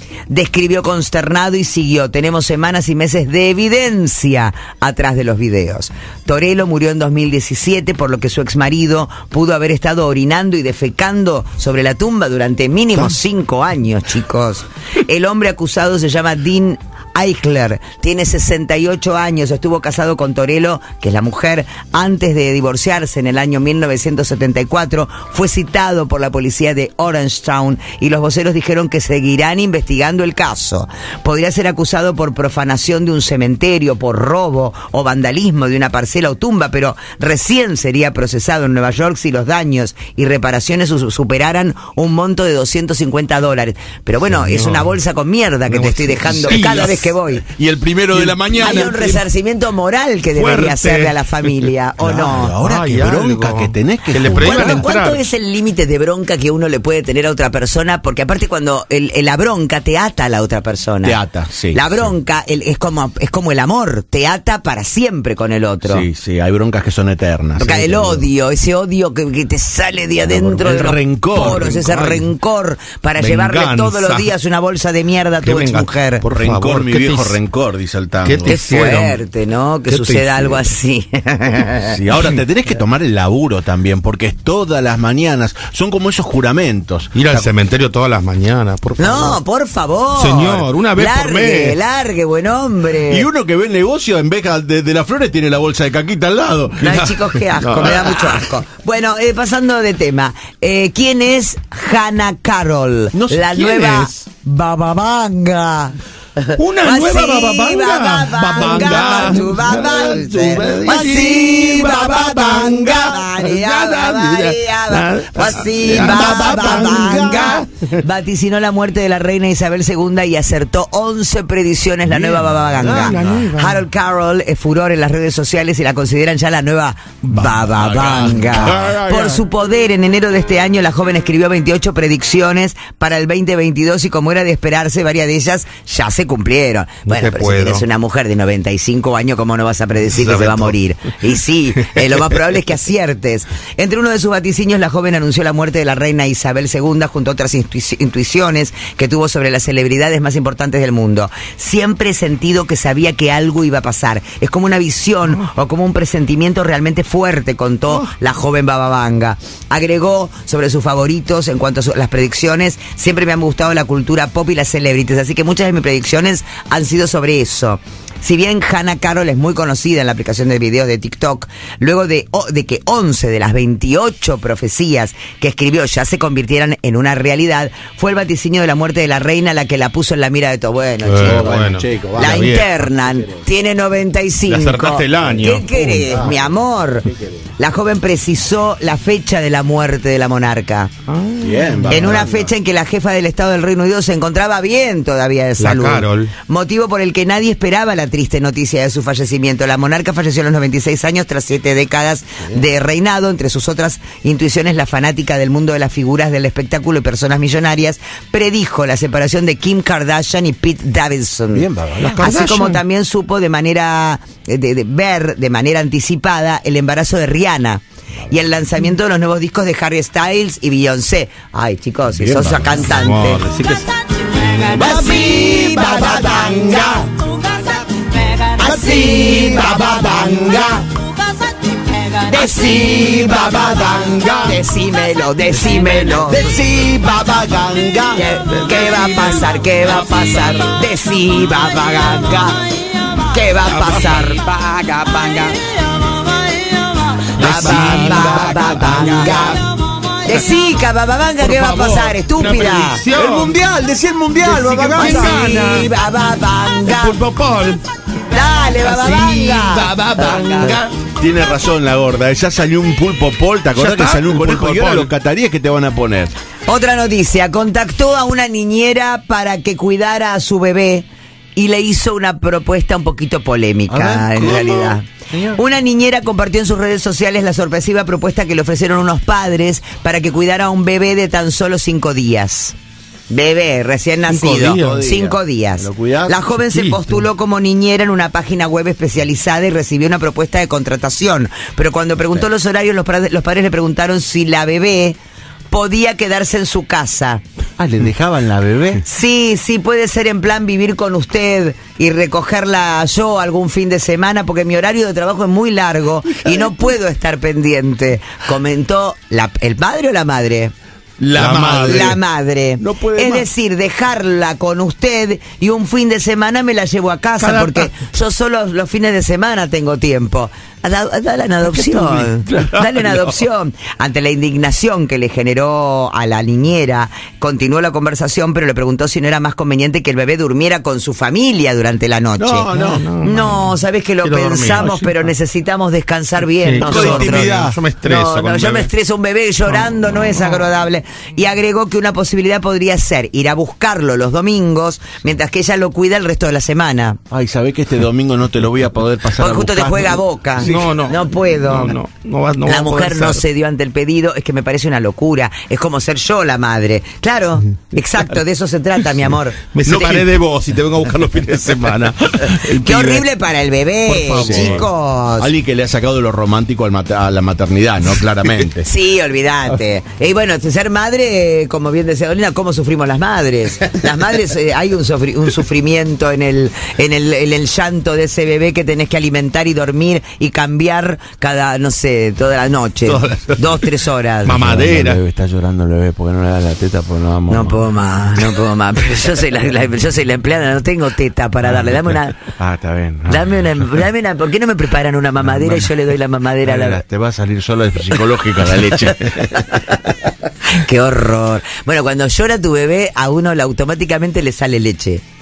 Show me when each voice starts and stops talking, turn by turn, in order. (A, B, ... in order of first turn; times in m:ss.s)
0:00.3-0:47.4 A
0:44.3-0:44.9 B
0:45.7-0:47.1 B
0:47.4-0:49.2 C
0:48.1-0:48.9 B
0:48.6-0:52.6 A
0:50.3-0:51.2 B
0:52.0-0:54.9 C
0:52.5-0:55.2 B
0:54.3-1:01.2 A
1:01.0-1:02.1 C
1:01.7-1:06.1 A
1:05.8-1:08.2 C
1:07.6-1:16.2 A
1:10.2-1:11.8 C
1:11.3-1:12.3 B
1:13.2-1:14.3 B
1:15.4-1:17.4 B
1:16.3-1:18.6 C
1:18.2-1:19.2 B
1:18.5-1:22.0 A
1:19.9-1:20.6 B
1:21.9-1:27.5 C
1:27.1-1:29.4 B
1:29.0-1:33.3 A
1:30.2-1:31.8 B
1:33.1-1:37.0 C
1:36.8-3:01.6 A
1:36.8-1:38.3 B
1:43.1-1:44.1 C
1:46.6-1:57.8 B
1:48.9-1:53.2 C
1:55.8-1:57.6 C
2:02.1-2:03.5 C
2:02.8-2:03.8 B
2:07.3-2:08.9 C
2:08.6-2:09.4 B
2:17.0-2:17.8 B
2:20.2-2:20.7 B
3:01.0-3:02.9 B
3:01.2-3:02.5 C
3:02.2-3:10.9 A
3:04.5-3:06.1 B
3:06.1-3:06.4 C
3:11.1-3:12.2 B
3:11.4-3:12.5 C
3:11.9-3:43.4 A
3:15.6-3:16.3 B
3:31.5-3:32.6 C
3:32.0-3:32.8 B
3:42.1-3:42.8 C
3:42.8-3:43.9 B
3:44.4-3:47.4 A
3:44.6-3:47.2 C
3:48.1-3:51.0 A
3:48.6-3:50.8 C
3:52.0-3:56.5 A
3:52.4-3:54.6 C
3:55.8-3:58.2 C
3:58.1-4:02.7 A
3:58.5-3:59.5 B
4:03.2-4:04.7 A
4:03.6-4:04.3 B
4:04.6-4:05.3 C
4:07.4-4:13.0 A
4:07.4-4:09.6 B
4:07.4-4:09.1 C
4:11.4-4:13.6 B
4:13.1-4:15.6 C
4:14.4-4:15.9 B
4:15.0-4:17.2 A
4:16.8-4:17.8 B
4:18.3-4:20.8 A
4:18.8-4:21.0 B
4:21.1-4:26.3 C
4:23.7-4:25.1 B
4:26.6-4:42.7 A
4:33.9-4:35.6 C
4:43.3-4:55.2 A
4:44.3-4:45.1 B
4:44.7-4:46.4 C
4:46.6-4:47.2 B
4:55.7-4:57.4 A
4:57.8-4:59.0 C
4:59.0-5:10.7 A
5:11.2-5:12.2 C
5:11.3-5:12.1 B
5:11.8-5:47.2 A
5:12.8-5:13.5 C
5:17.4-5:17.8 C
5:21.7-5:23.2 C
5:32.4-5:33.0 C
5:32.8-5:34.9 B
5:34.7-5:35.1 C
5:36.6-5:38.9 B
5:36.8-5:37.8 C
5:47.3-5:51.0 C
5:49.4-5:52.0 A
5:50.6-5:53.4 B
5:52.6-5:59.6 A
5:59.7-6:03.2 B
5:59.8-6:00.3 C
6:02.8-6:05.5 A
6:04.1-6:04.8 B
6:04.4-6:04.8 C
6:05.4-6:08.9 C
6:08.8-6:24.7 A
6:23.0-6:23.9 B
6:24.4-6:25.2 B
6:24.6-6:27.8 C
6:27.5-6:32.5 A
6:32.6-6:34.0 C
6:33.2-6:37.0 A
6:35.4-6:35.9 C
6:36.6-6:39.8 C
6:39.4-6:45.2 A